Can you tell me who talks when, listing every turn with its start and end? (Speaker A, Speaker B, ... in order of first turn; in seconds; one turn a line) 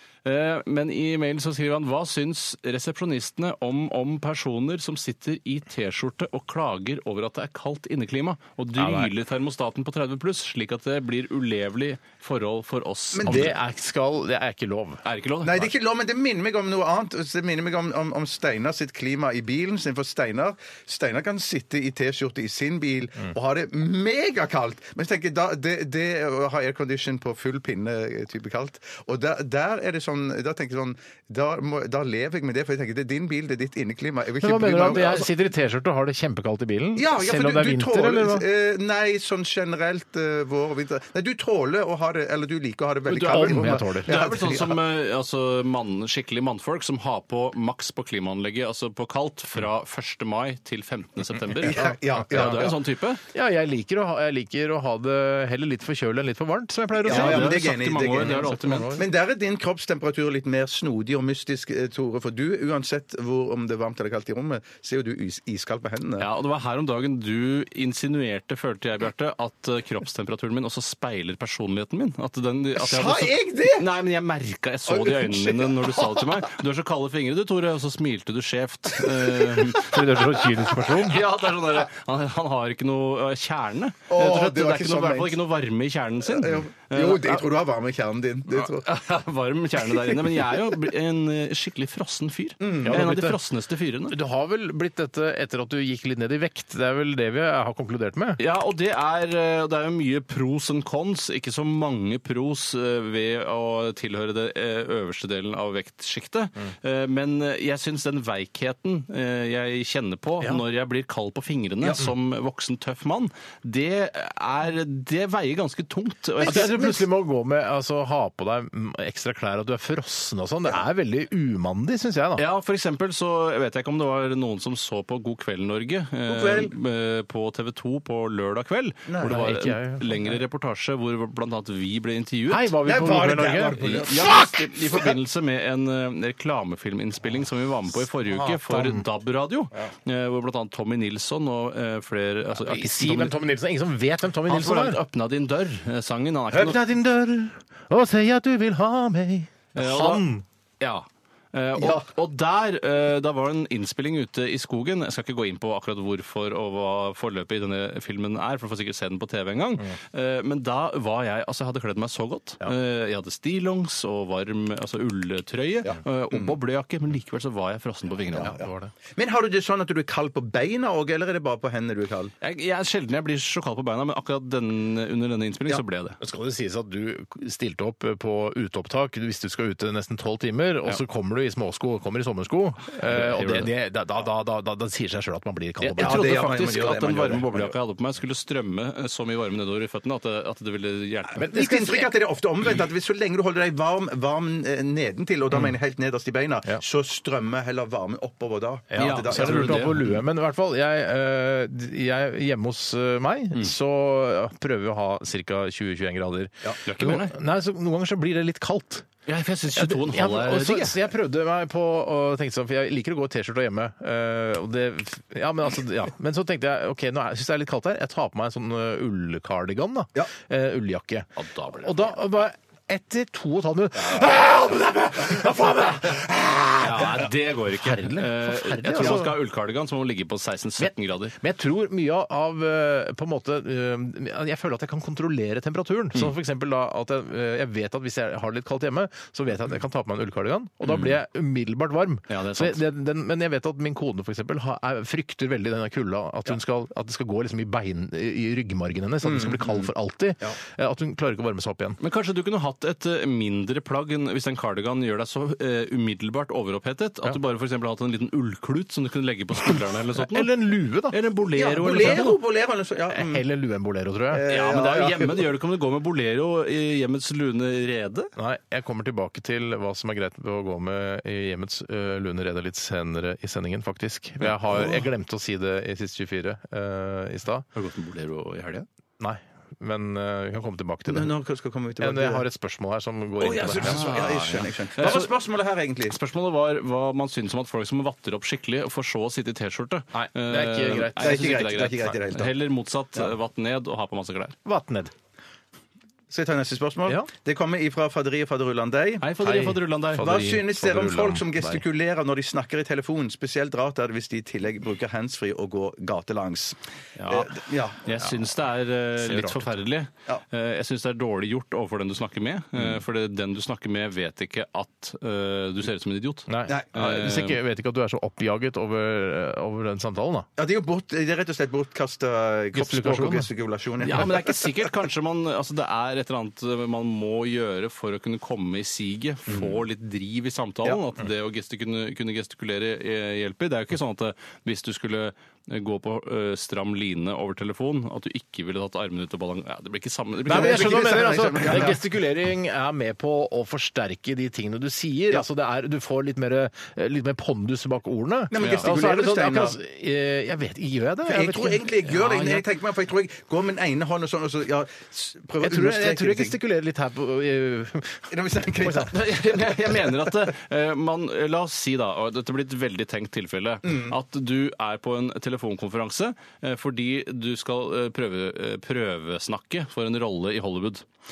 Speaker A: 0.2-13.5
Speaker B: 8.7-9.1
Speaker C: 13.1-13.5
Speaker B: 13.2-15.0
Speaker A: 15.0-15.6
Speaker C: 15.4-35.3
Speaker B: 34.4-38.4
Speaker C: 37.0-44.8
Speaker A: 43.1-53.2
Speaker B: 43.1-44.1
Speaker C: 51.5-52.8
Speaker B: 51.6-52.7
Speaker B: 53.3-59.0
Speaker C: 57.0-66.3
Speaker A: 57.0-59.0
Speaker A: 66.2-80.2
Speaker C: 72.8-73.9
Speaker C: 74.9-76.5
Speaker B: 79.6-81.2
Speaker A: 80.7-87.4
Speaker C: 84.1-85.4
Speaker C: 86.2-88.9
Speaker A: 88.5-94.2
Speaker C: 90.1-90.6
Speaker C: 92.6-93.0
Speaker B: 92.8-93.4
Speaker B: 94.1-98.4
Speaker A: 98.4-116.7
Speaker C: 116.4-117.0
Speaker B: 116.4-122.4
Speaker A: 122.3-132.7
Speaker C: 126.3-126.7
Speaker C: 129.1-129.4
Speaker B: 129.2-130.4
Speaker B: 132.5-134.7
Speaker C: 132.8-134.4
Speaker A: 133.8-143.4
Speaker B: 138.3-139.1
Speaker B: 142.6-145.0
Speaker A: 144.4-146.8
Speaker B: 146.5-150.4
Speaker A: 149.7-150.2
Speaker A: 150.8-168.6
Speaker C: 151.8-152.1
Speaker C: 165.8-166.5
Speaker C: 168.3-172.3
Speaker B: 168.4-168.9
Speaker A: 172.4-176.2
Speaker B: 176.2-186.2
Speaker A: 183.0-183.7
Speaker A: 185.8-191.5
Speaker C: 186.0-187.7
Speaker B: 191.3-192.1
Speaker C: 191.5-200.0
Speaker B: 198.9-209.1
Speaker A: 199.0-200.2
Speaker A: 206.8-207.3
Speaker A: 209.2-210.9
Speaker B: 209.7-229.3
Speaker A: 221.3-222.1
Speaker A: 226.8-231.3
Speaker B: 230.8-252.0
Speaker A: 240.9-241.1
Speaker A: 242.3-242.8
Speaker C: 249.2-249.9
Speaker A: 252.0-260.5
Speaker B: 260.1-261.2
Speaker A: 261.1-262.4
Speaker C: 261.5-263.5
Speaker B: 261.9-262.2
Speaker B: 263.1-264.5
Speaker C: 264.3-265.5
Speaker A: 264.4-268.3
Speaker B: 268.4-277.7
Speaker A: 277.7-278.9
Speaker B: 279.2-281.3
Speaker C: 281.1-282.4
Speaker B: 282.0-284.1
Speaker C: 283.4-286.1
Speaker A: 283.8-285.3
Speaker A: 286.1-294.6
Speaker B: 290.1-291.6
Speaker C: 291.1-292.5
Speaker B: 294.6-295.1
Speaker C: 296.3-299.3
Speaker A: 299.2-300.3
Speaker B: 299.4-301.8
Speaker C: 300.1-308.1
Speaker A: 307.2-317.6
Speaker B: 309.2-309.7
Speaker B: 316.5-320.5
Speaker C: 316.7-316.9
Speaker C: 320.6-324.7
Speaker B: 322.7-323.5
Speaker A: 324.0-341.8
Speaker C: 340.4-342.0
Speaker B: 340.4-352.5
Speaker C: 348.5-349.8
Speaker A: 348.5-348.9
Speaker C: 351.2-356.6
Speaker B: 355.6-359.1
Speaker C: 358.3-359.3
Speaker A: 359.1-371.1
Speaker C: 363.8-364.1